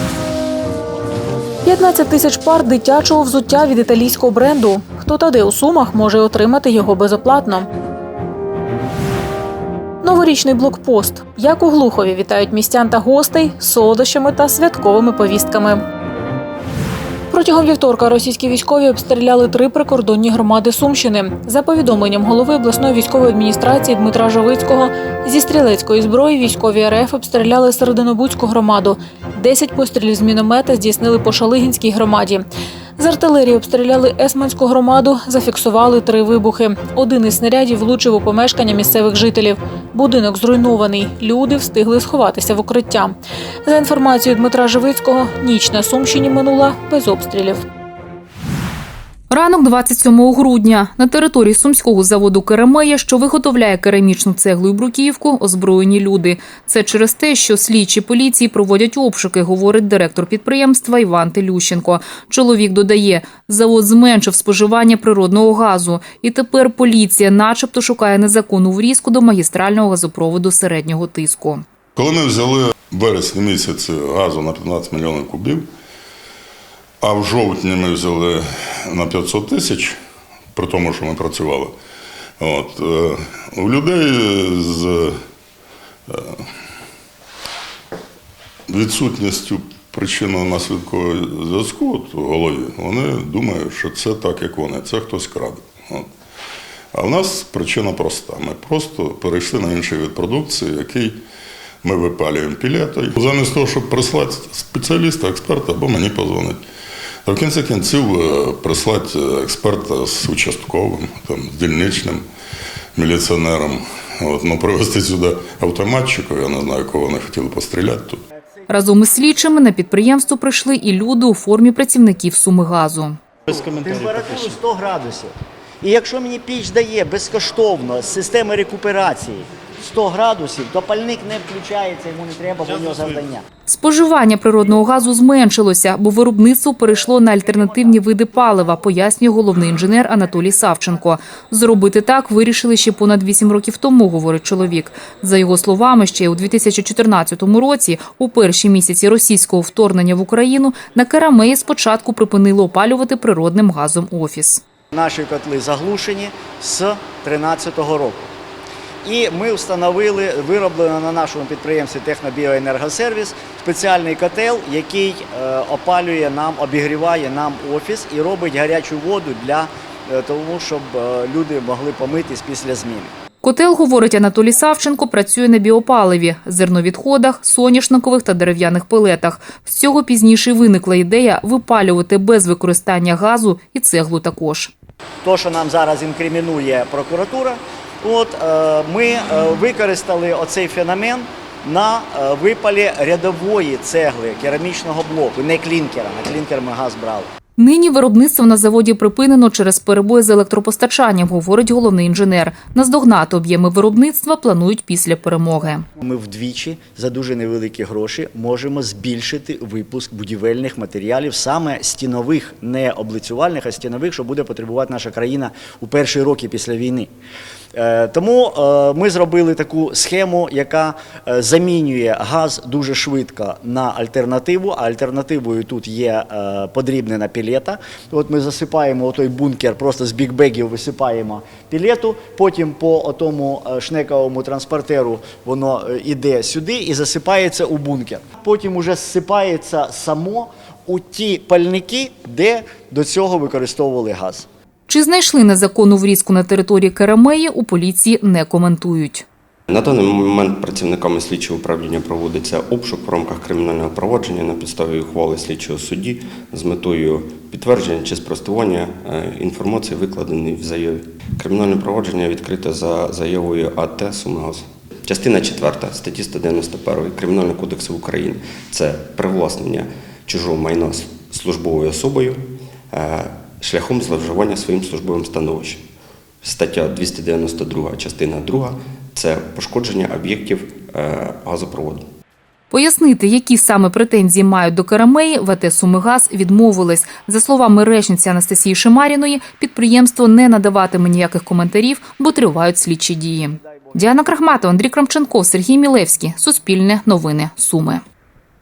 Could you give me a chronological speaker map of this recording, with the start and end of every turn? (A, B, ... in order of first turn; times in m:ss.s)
0:01.6-0:07.7 A
0:10.0-0:15.8 A
0:17.3-0:47.6 A
0:49.3-1:11.6 B
1:12.0-1:15.7 C
1:17.0-1:20.0 C
1:20.6-1:21.8 C
1:22.4-1:25.2 C
1:26.1-1:26.4 C
1:28.7-1:36.1 C
1:36.9-1:41.2 C
1:41.8-1:46.6 C
1:47.2-1:52.2 C
1:53.0-1:58.2 C
1:58.7-2:03.2 B
2:03.5-2:13.4 D
2:13.7-2:34.6 B
2:34.9-2:38.3 D
2:39.0-2:53.1 D
2:53.4-3:04.7 B
3:05.2-3:17.3 D
3:17.6-3:25.8 B
3:26.0-3:37.1 D
3:37.8-4:04.5 D
4:04.9-4:09.2 B
4:09.7-4:35.8 E
4:36.4-4:42.1 E
4:42.7-4:58.0 B